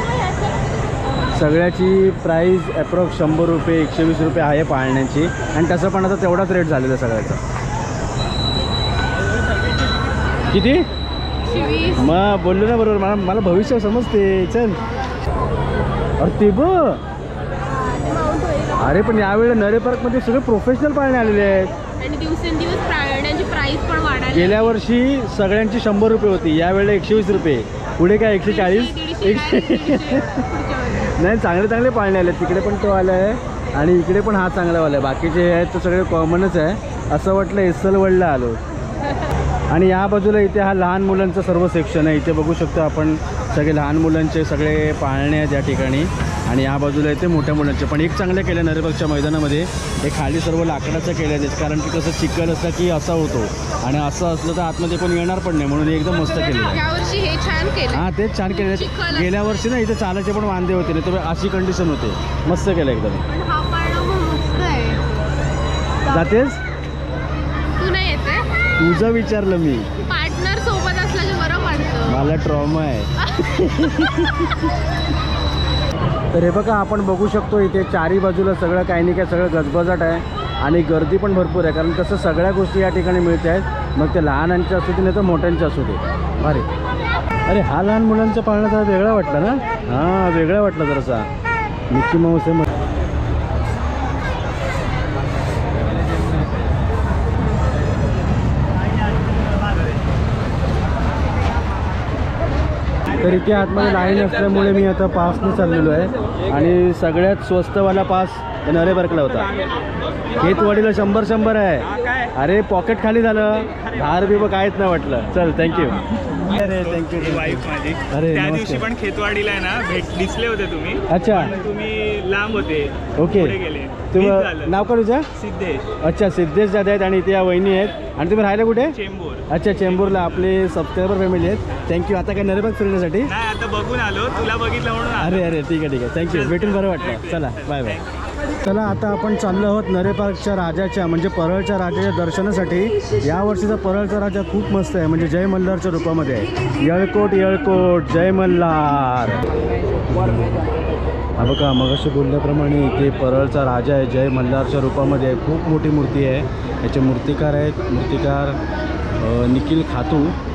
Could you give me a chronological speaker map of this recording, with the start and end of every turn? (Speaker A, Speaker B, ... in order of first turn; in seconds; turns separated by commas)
Speaker A: 1.3-7.4, Speaker A: 10.5-10.8, Speaker B: 11.4-12.1, Speaker A: 11.9-14.8, Speaker A: 16.2-17.0, Speaker B: 17.7-19.2, Speaker A: 18.8-21.7, Speaker B: 22.0-24.8, Speaker A: 24.3-30.4, Speaker B: 28.4-31.1, Speaker A: 31.0-38.6, Speaker A: 39.7-56.8, Speaker B: 56.2-59.5, Speaker A: 57.9-63.3, Speaker B: 63.3-65.1, Speaker B: 66.0-66.4, Speaker A: 66.1-66.6, Speaker B: 67.8-68.5, Speaker A: 68.8-69.9, Speaker B: 70.0-72.3, Speaker A: 72.1-74.6, Speaker B: 73.2-74.2, Speaker A: 76.3-86.7, Speaker A: 87.5-91.3, Speaker A: 91.9-92.7, Speaker A: 103.2-109.5, Speaker A: 110.3-118.9, Speaker C: 117.5-121.0, Speaker A: 121.1-121.5, Speaker C: 121.6-122.9, Speaker A: 123.2-125.2, Speaker C: 123.5-124.5, Speaker C: 125.4-125.8, Speaker A: 126.0-129.0, Speaker C: 129.0-129.4, Speaker A: 129.5-133.3, Speaker C: 133.4-135.3, Speaker A: 135.1-138.0, Speaker C: 136.3-137.4, Speaker A: 138.6-149.5, Speaker A: 150.1-150.6, Speaker A: 151.4-158.6, Speaker A: 159.2-160.3